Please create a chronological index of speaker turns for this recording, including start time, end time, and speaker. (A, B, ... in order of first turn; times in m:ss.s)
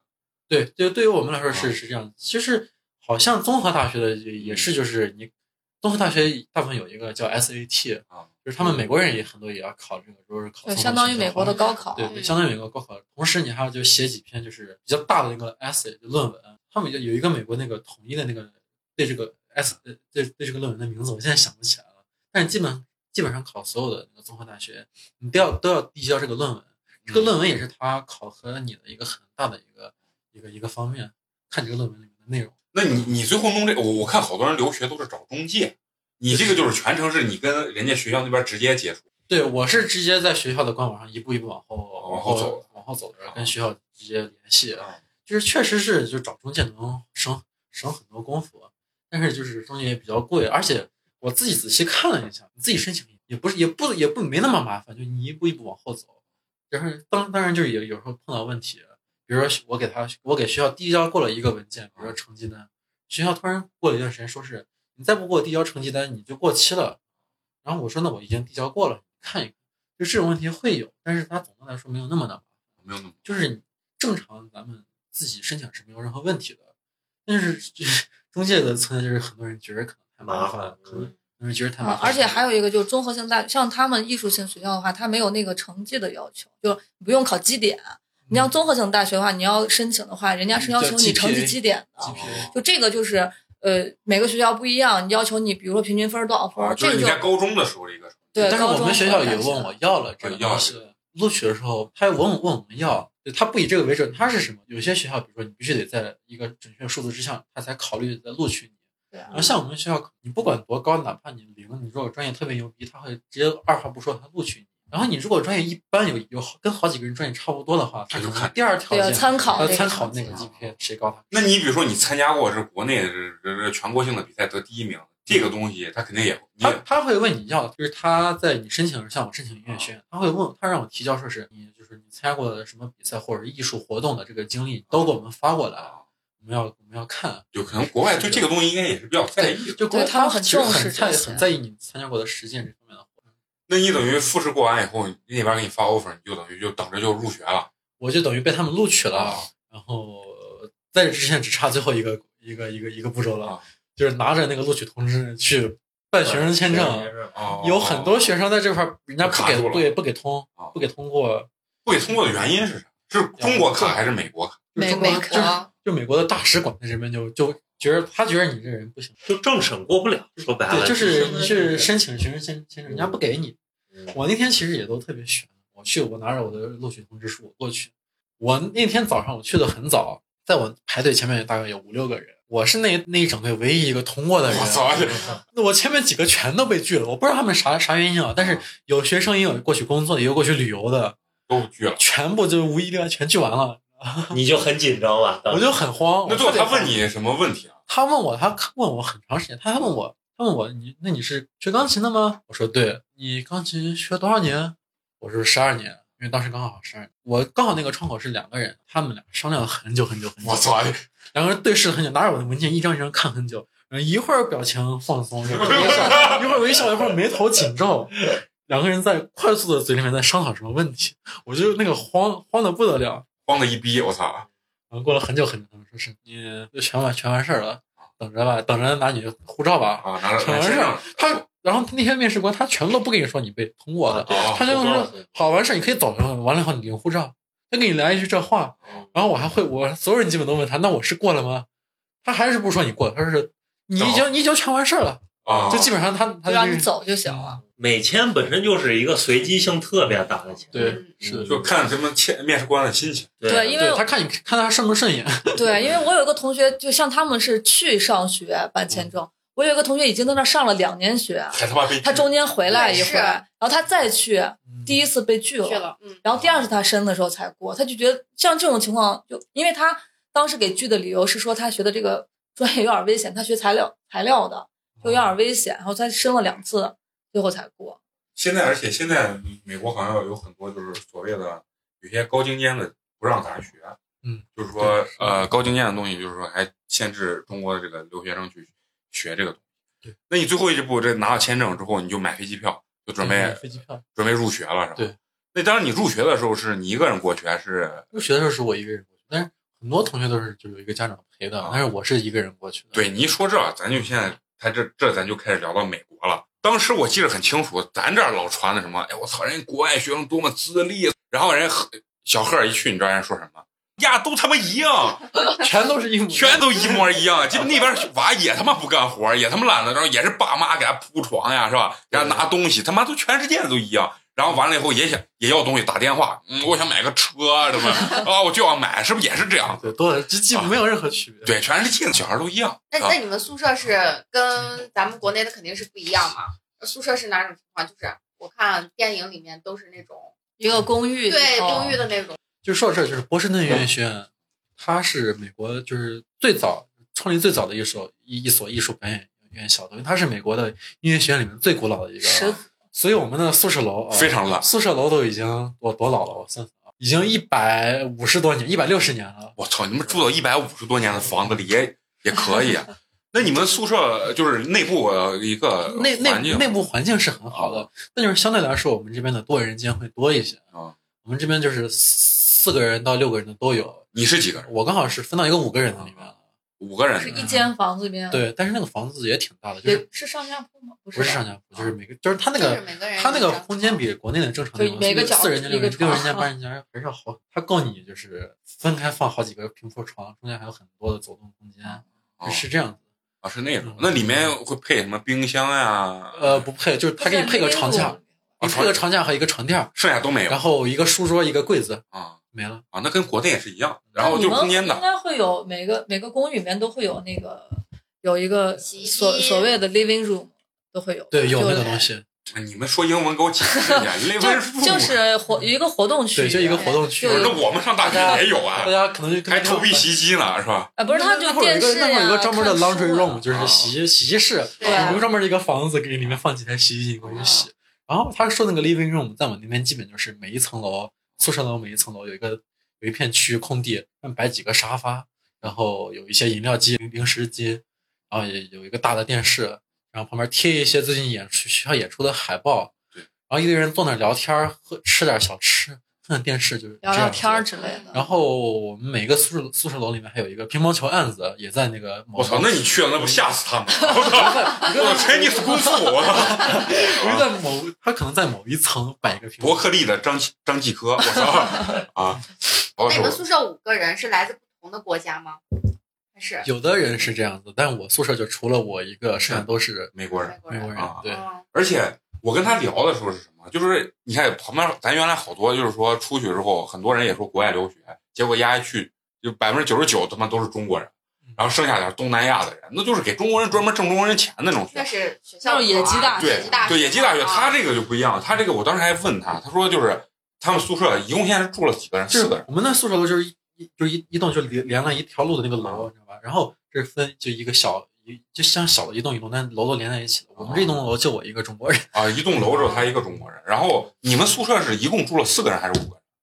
0:00.5-0:05.3 A
0:04.4-0:04.7 B
0:05.8-0:32.5 A
0:10.6-0:12.1 C
0:11.5-0:12.4 D
0:27.0-0:27.3 B
0:32.7-0:39.0 B
0:39.3-0:56.1 A
0:42.0-0:42.6 B
0:43.2-0:43.5 B
0:56.7-1:07.0 A
1:07.6-1:12.5 A
1:12.8-1:13.2 B
1:13.2-1:16.6 A
1:17.2-1:22.4 A
1:20.2-1:21.1 E
1:21.8-1:37.2 C
1:30.5-1:32.5 A
1:32.1-1:32.5 B
1:36.6-1:39.3 B
1:38.3-1:39.8 C
1:38.4-1:48.8 A
1:40.2-1:40.8 B
1:49.3-2:01.5 A
1:58.1-2:00.7 B
1:58.9-2:00.4 C
2:01.3-2:06.8 B
2:06.6-2:17.5 A
2:17.5-2:19.8 B
2:18.1-2:18.4 A
2:19.4-2:23.1 A
2:19.9-2:21.5 C
2:23.7-2:27.7 B
2:28.0-2:41.5 A
2:29.1-2:29.5 B
2:36.2-2:37.4 E
2:37.3-2:38.3 B
2:39.2-2:39.9 B
2:41.8-2:44.6 B
2:43.4-2:44.1 A
2:44.7-2:49.2 A
2:44.8-2:45.5 C
2:44.8-2:45.7 D
2:49.2-2:51.9 E
2:50.4-2:53.6 A
2:52.9-2:53.2 E
2:54.1-3:11.2 A
3:04.5-3:05.3 B
3:11.5-3:12.0 B
3:12.0-3:14.4 A
3:14.3-3:15.7 E
3:15.5-3:17.0 A
3:16.2-3:17.8 B
3:17.9-3:43.2 A
3:30.4-3:31.0 B
3:35.4-3:36.5 B
3:43.4-3:44.4 B
3:44.9-4:01.7 A
3:50.0-3:51.4 B
3:54.1-3:55.3 E
3:54.3-3:55.1 B
4:02.2-4:06.9 A
4:04.0-4:04.2 B
4:05.4-4:05.9 B
4:06.4-4:07.6 C
4:07.6-4:11.7 E
4:10.7-4:11.6 A
4:10.8-4:11.2 D
4:11.4-4:13.3 B
4:13.4-4:13.8 E
4:13.5-4:14.0 C
4:13.7-4:15.7 A
4:15.6-4:38.0 C
4:21.5-4:22.2 B
4:22.7-4:23.4 D
4:24.7-4:25.0 A
4:25.6-4:26.2 D
4:35.0-4:35.3 A
4:38.4-4:44.0 B
4:44.2-4:45.5 A
4:44.6-4:49.6 B
4:50.3-4:58.1 B
4:53.2-4:54.0 A
4:58.1-5:03.0 A
5:02.9-5:15.3 B
5:15.6-5:17.0 A
5:16.3-5:29.9 B
5:22.1-5:22.4 A
5:29.7-5:31.5 A
5:31.4-5:33.2 B
5:32.9-5:40.3 D
5:40.6-5:42.0 C
5:41.2-5:42.4 D
5:42.6-5:59.6 A
5:52.2-5:52.6 C
5:54.1-5:54.6 B
5:59.6-6:06.7 B
6:05.8-6:10.6 A
6:07.5-6:07.9 B
6:11.2-6:14.0 A
6:14.1-6:14.7 B
6:14.6-6:16.4 A
6:15.9-6:16.2 B
6:16.8-6:17.4 B
6:17.2-6:18.4 C
6:17.3-6:17.7 A
6:18.3-6:20.0 A
6:19.8-6:21.4 C
6:21.1-6:33.0 A
6:22.5-6:24.0 D
6:24.8-6:26.5 C
6:32.4-6:32.6 B
6:33.4-6:36.6 B
6:33.8-6:34.5 A
6:36.3-6:39.9 A
6:37.2-6:38.2 C
6:38.6-6:39.0 B
6:39.9-6:40.6 B
6:40.5-6:42.8 A
6:42.1-6:42.4 B
6:42.9-6:45.0 B
6:44.2-6:52.1 C
6:48.8-6:49.7 D
6:51.3-6:52.2 A
6:52.5-6:55.2 B
6:53.7-6:58.4 C
6:56.3-7:00.1 A
6:56.7-6:57.0 D
6:57.2-6:58.9 B
6:59.5-7:00.9 B
7:01.0-7:03.4 C
7:01.0-7:22.9 A
7:03.5-7:03.9 B
7:04.8-7:05.2 D
7:04.8-7:05.2 C
7:04.8-7:05.1 B
7:07.2-7:07.6 B
7:23.5-7:33.5 A
7:27.0-7:28.2 C
7:27.8-7:28.2 D
7:32.4-7:37.5 B
7:34.1-7:35.0 C
7:34.2-7:39.9 A
7:39.6-7:43.4 B
7:43.0-7:45.6 D
7:46.3-7:46.6 D
7:46.6-7:50.1 A
7:49.5-8:05.1 B
7:50.4-7:51.6 D
7:50.7-7:51.4 A
8:04.8-8:07.8 D
8:05.6-8:06.9 C
8:06.3-8:12.7 B
8:12.3-8:22.1 A
8:15.8-8:16.1 B
8:20.6-8:20.9 B
8:22.1-8:26.2 B